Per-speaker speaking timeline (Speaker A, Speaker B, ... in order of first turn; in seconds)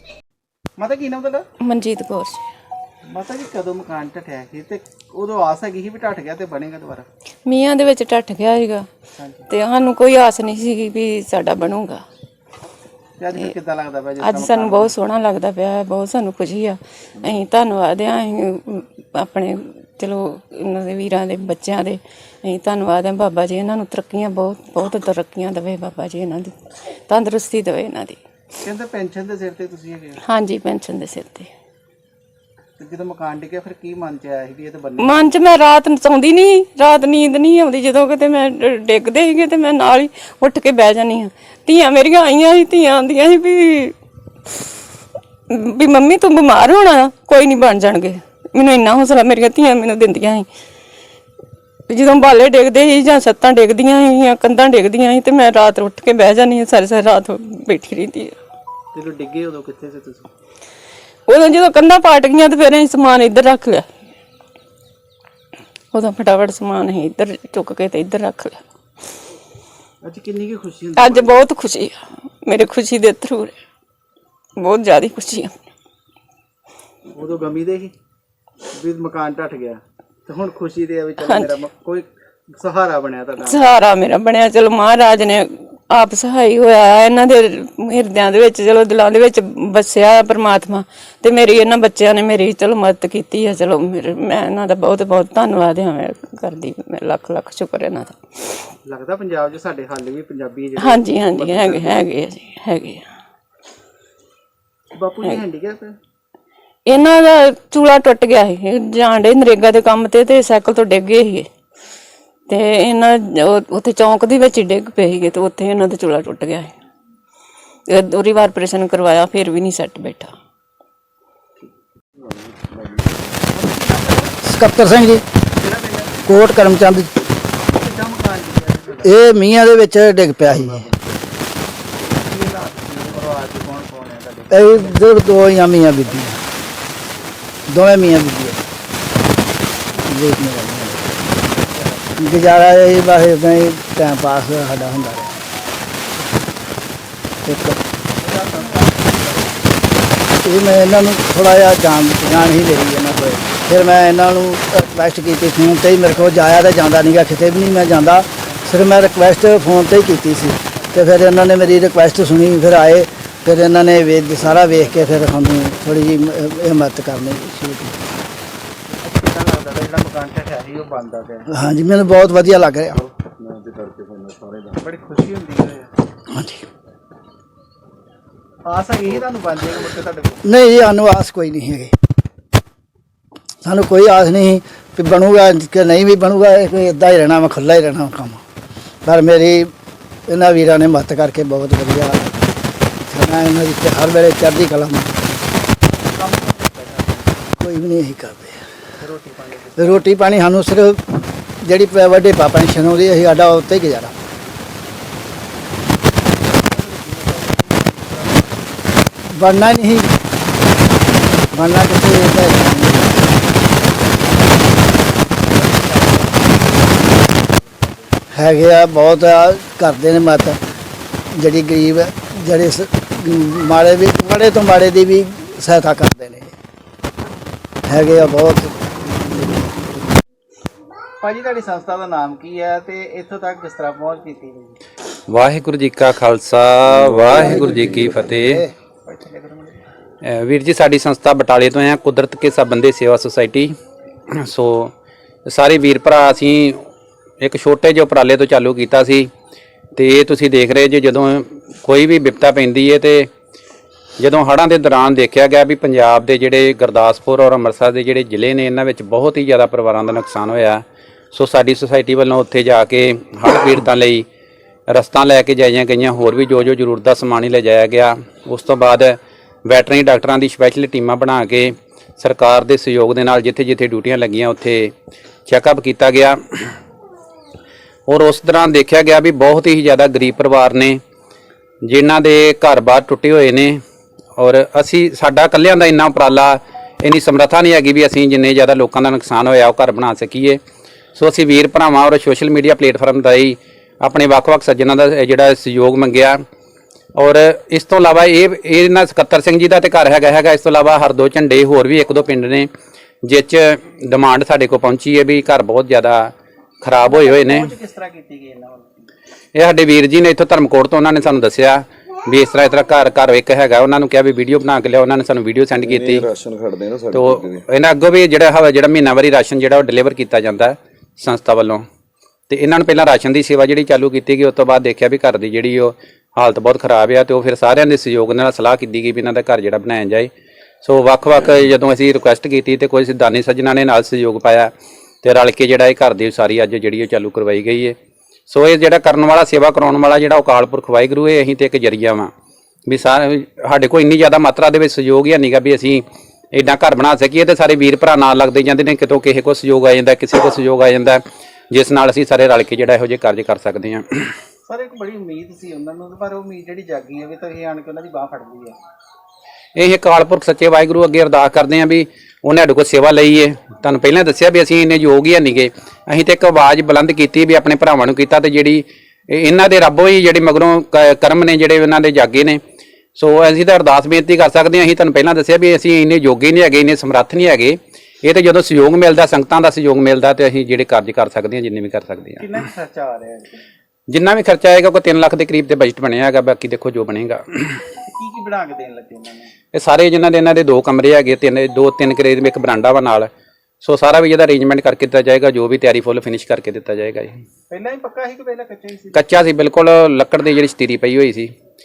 Speaker A: 0.8-1.4, 3.1-7.0, 9.2-9.5, 13.2-15.0, 28.6-30.2, 32.8-35.3, 58.9-60.3, 70.0-71.4, 77.1-77.9, 78.8-83.8, 98.8-102.0, 104.9-106.0, 123.5-124.3, 125.6-126.3, 127.6-129.1, 132.1-135.2, 141.5-142.4, 148.2-149.7, 169.0-171.5, 174.8-175.9, 178.6-180.4, 196.1-197.4, 199.0-200.1, 206.3-208.7, 213.8-218.1, 231.2-234.8, 239.1-239.8, 307.0-308.9, 354.7-358.7, 382.4-383.6, 388.1-389.5, 397.7-399.3
Speaker B: 1.6-2.4, 7.5-8.9, 9.5-12.0, 14.2-26.5, 27.1-28.2, 30.2-31.5, 35.0-43.9, 45.5-50.5, 51.9-58.3, 61.3-63.9, 65.9-68.6, 71.0-73.5, 74.6-75.5, 81.2-81.5, 83.4-98.2, 100.8-103.0, 106.9-111.5, 112.5-116.7, 117.9-120.3
Speaker C: 122.3-123.0, 173.2-174.8, 236.8-238.4, 315.8-317.6
Speaker D: 124.4-125.2, 126.3-127.1, 129.0-130.9, 134.5-136.4, 137.7-138.6, 140.1-141.2, 142.2-145.4, 147.4-147.8, 150.4-168.0, 171.5-173.0, 176.3-176.6, 180.4-181.9, 183.6-188.4, 189.0-189.7, 190.3-192.3, 193.1-195.1, 197.6-198.6, 199.8-201.0, 201.6-204.2, 209.3-210.1, 211.5-213.3, 218.3-220.6, 221.3-226.5, 227.9-230.1, 237.3-238.6
Speaker E: 235.3-238.6, 240.2-243.7, 244.3-244.9, 245.5-246.8, 247.4-249.3, 249.9-253.3, 254.2-264.2, 264.9-274.9, 275.5-276.7, 278.1-281.0, 281.9-283.8, 284.4-290.6, 291.1-296.4, 297.1-302.7, 303.2-307.7, 309.5-316.2, 317.1-321.8, 322.5-330.3, 330.8-334.7, 335.2-337.9, 338.5-342.3, 342.9-354.2, 359.8-372.6, 373.1-382.4, 384.1-387.7, 389.7-393.3, 393.8-397.4, 399.1-401.5